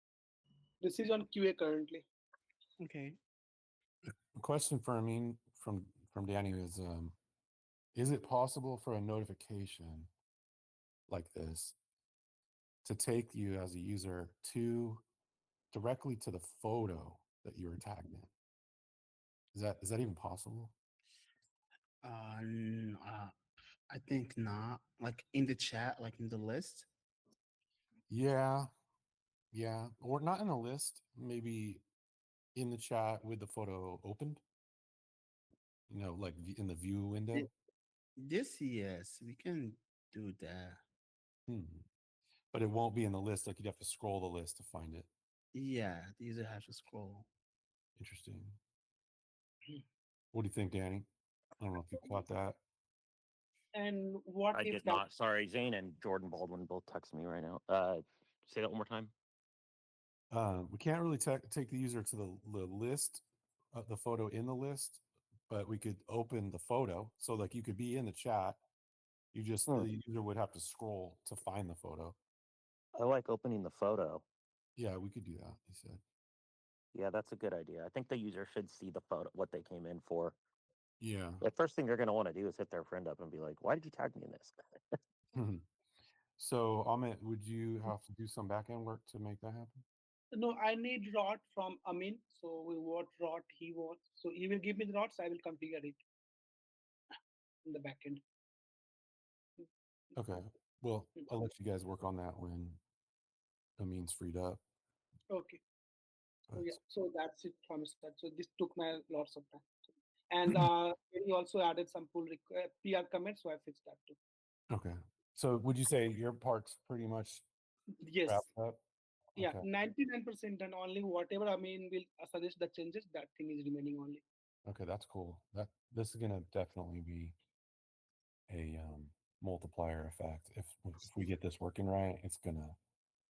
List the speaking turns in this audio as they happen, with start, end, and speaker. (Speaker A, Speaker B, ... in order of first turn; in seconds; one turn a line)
Speaker A: 0.8-2.0
Speaker B: 2.8-3.2
Speaker C: 4.3-7.2
Speaker C: 7.9-10.1
Speaker C: 11.1-11.7
Speaker C: 12.8-15.0
Speaker C: 15.7-18.3
Speaker C: 19.5-20.7
Speaker B: 22.0-23.3
Speaker B: 23.9-26.9
Speaker C: 28.1-28.7
Speaker C: 29.5-31.8
Speaker C: 32.5-34.4
Speaker C: 35.9-37.5
Speaker B: 38.2-40.8
Speaker C: 41.5-41.8
Speaker C: 42.5-45.1
Speaker B: 45.5-47.3
Speaker C: 48.0-48.6
Speaker C: 50.3-51.0
Speaker C: 51.6-52.6
Speaker A: 53.7-55.0
Speaker D: 54.5-59.1
Speaker C: 60.3-68.6
Speaker C: 69.3-72.2
Speaker D: 72.9-74.2
Speaker C: 74.8-76.0
Speaker D: 76.9-80.4
Speaker C: 81.0-81.4
Speaker D: 81.4-85.0
Speaker C: 85.3-85.6
Speaker C: 86.4-89.8
Speaker A: 90.3-96.0
Speaker A: 97.6-98.2
Speaker C: 100.2-102.8
Speaker C: 103.8-104.6
Speaker A: 105.3-105.6
Speaker C: 106.5-106.7
Speaker A: 106.5-109.7
Speaker A: 110.3-114.2
Speaker C: 114.7-117.4
Speaker A: 118.0-118.4
Speaker C: 118.2-118.8
Speaker C: 119.3-119.7
Speaker A: 119.4-124.2
Speaker C: 124.7-127.3
Speaker C: 128.5-132.8